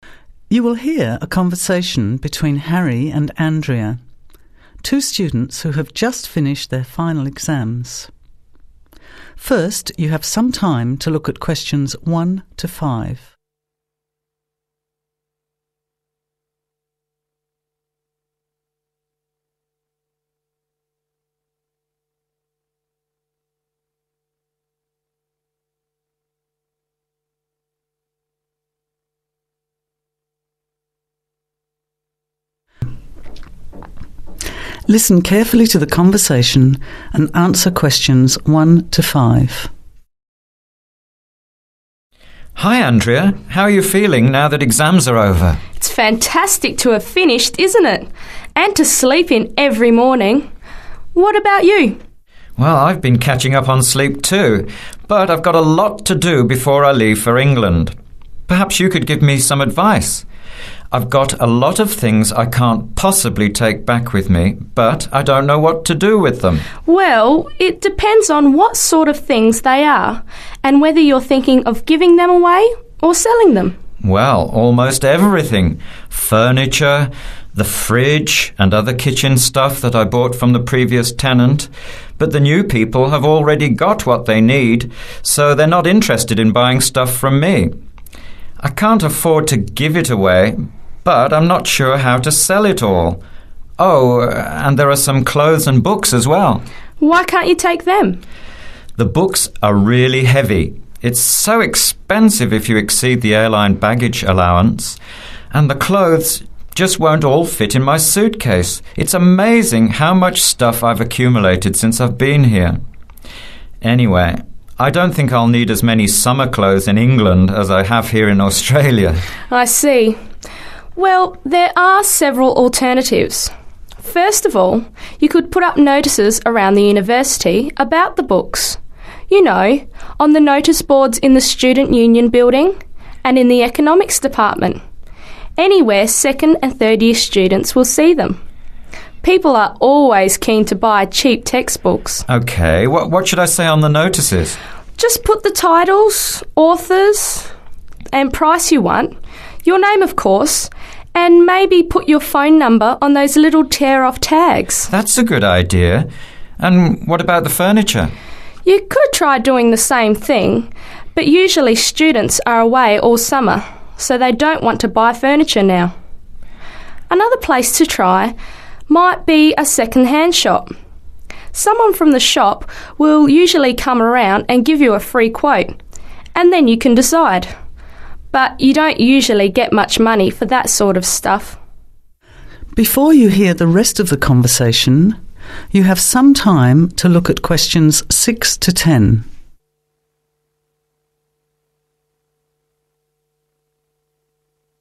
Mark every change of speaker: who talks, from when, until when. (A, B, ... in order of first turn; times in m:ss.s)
0:00.5-0:04.0 A
0:04.8-0:08.1 A
0:09.4-0:13.3 A
0:34.9-0:39.7 A
0:42.6-0:45.6 B
0:45.8-0:50.5 C
0:51.1-0:52.0 C
0:52.6-0:57.9 B
0:58.5-1:00.2 B
1:00.9-1:06.6 B
1:06.8-1:13.8 C
1:14.0-1:27.7 B
1:28.6-1:33.2 B
1:33.8-1:36.6 B
1:37.0-1:38.2 C
1:39.0-1:45.0 B
1:45.5-1:52.8 B
1:53.8-1:59.2 B
1:59.5-2:00.2 C
2:01.0-2:08.8 C
2:09.3-2:14.8 C
2:15.6-2:18.4 C
2:19.2-2:22.2 C
2:22.3-2:24.6 B
2:25.0-2:27.5 C
2:28.1-2:34.9 C
2:34.9-2:38.1 B
2:38.6-2:45.9 C
2:47.1-2:48.3 C
2:48.9-2:50.7 C
2:51.5-2:55.8 C
2:56.3-2:57.5 C
2:58.3-3:01.6 C
3:02.7-3:05.2 A
3:05.7-3:09.3 A